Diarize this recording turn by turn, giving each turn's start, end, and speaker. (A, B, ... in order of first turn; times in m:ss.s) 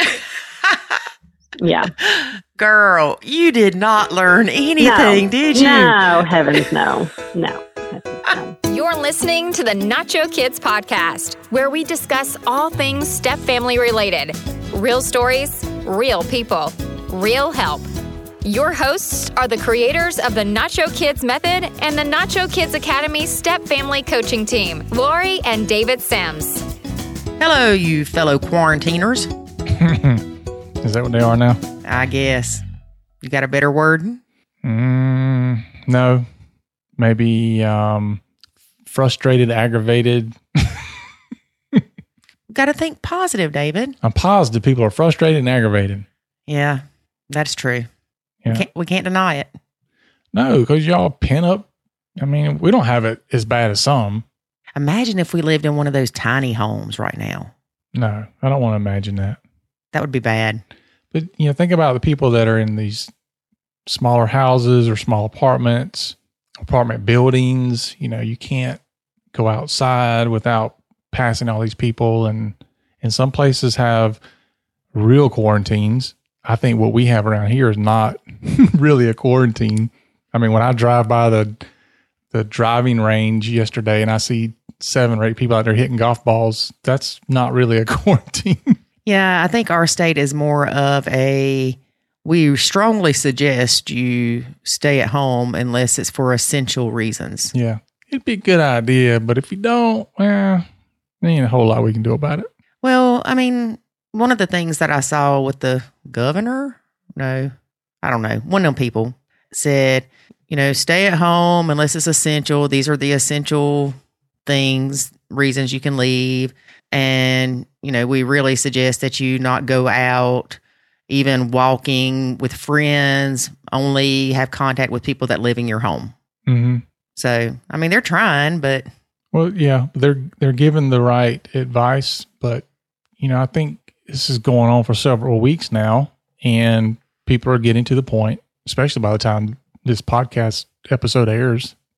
0:01.6-0:01.9 A
0:02.0-0:06.6 B
0:04.8-0:08.6 A
0:08.6-0:17.9 C
0:18.4-0:26.6 C
0:27.4-0:29.3 B
0:29.7-0:30.3 D
0:30.8-0:31.6 D
0:31.8-0:32.6 B
0:33.2-0:34.2 B
0:34.6-0:36.3 D
0:37.0-0:38.2 D
0:38.8-0:41.0 D
0:42.5-0:44.0 B
0:44.0-0:46.0 D
0:46.5-0:47.9 B
0:48.5-0:49.5 B
0:50.3-0:51.7 D
0:52.2-0:54.2 D
0:54.8-0:57.5 B
0:57.9-0:59.4 D
0:59.9-1:00.6 B
1:01.1-1:03.1 D
1:03.8-1:08.8 D
1:09.3-1:14.2 D
1:14.9-1:21.6 D
1:22.3-1:28.8 D
1:29.0-1:37.5 B
1:37.5-1:40.7 D
1:41.2-1:42.5 D
1:42.8-2:06.1 B
2:06.5-2:06.8 D
2:07.2-2:08.9 B
2:09.3-2:12.6 D
2:13.2-2:21.7 D